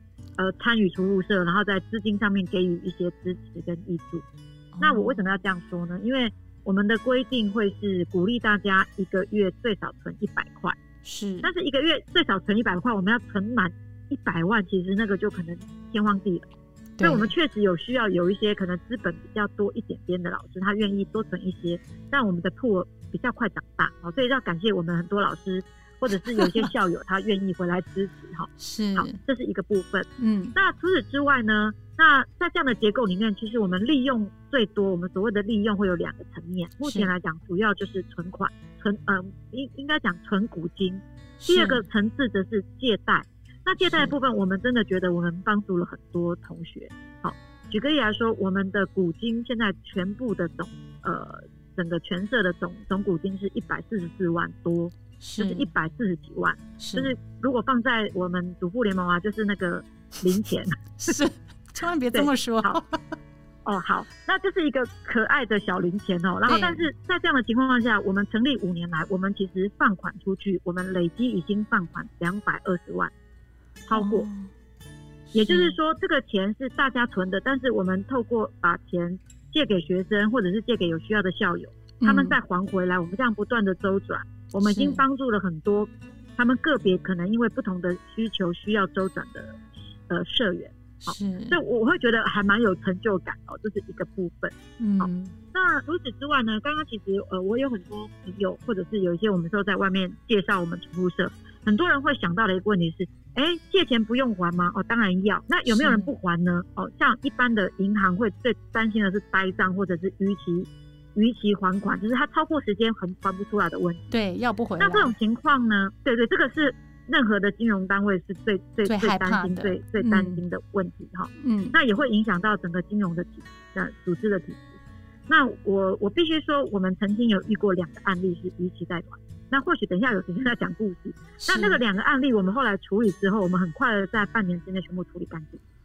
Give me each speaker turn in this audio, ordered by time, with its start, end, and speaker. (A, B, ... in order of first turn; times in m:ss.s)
0:00.4-0:04.2 A
0:04.7-0:05.2 B
0:04.8-0:10.8 A
0:11.0-0:11.5 B
0:11.4-0:16.5 A
0:17.0-0:17.3 B
0:17.0-1:01.2 A
0:26.3-0:26.7 B
0:28.6-0:29.2 B
0:30.2-0:30.5 B
0:36.8-0:37.1 B
0:41.4-0:41.8 B
0:43.8-0:44.1 B
0:55.2-0:55.7 B
0:56.8-0:57.1 B
1:01.0-1:03.0 B
1:02.1-1:02.8 A
1:03.6-1:13.1 A
1:06.5-1:06.8 B
1:13.9-1:14.3 A
1:13.9-1:14.5 B
1:15.3-1:15.8 B
1:15.3-1:54.1 A
1:22.0-1:22.4 B
1:24.6-1:25.0 B
1:31.1-1:31.6 B
1:34.8-1:35.3 B
1:45.7-1:46.1 B
1:54.1-1:55.1 B
1:54.8-2:15.6 A
1:58.8-2:00.4 B
2:01.4-2:01.7 B
2:11.4-2:11.8 B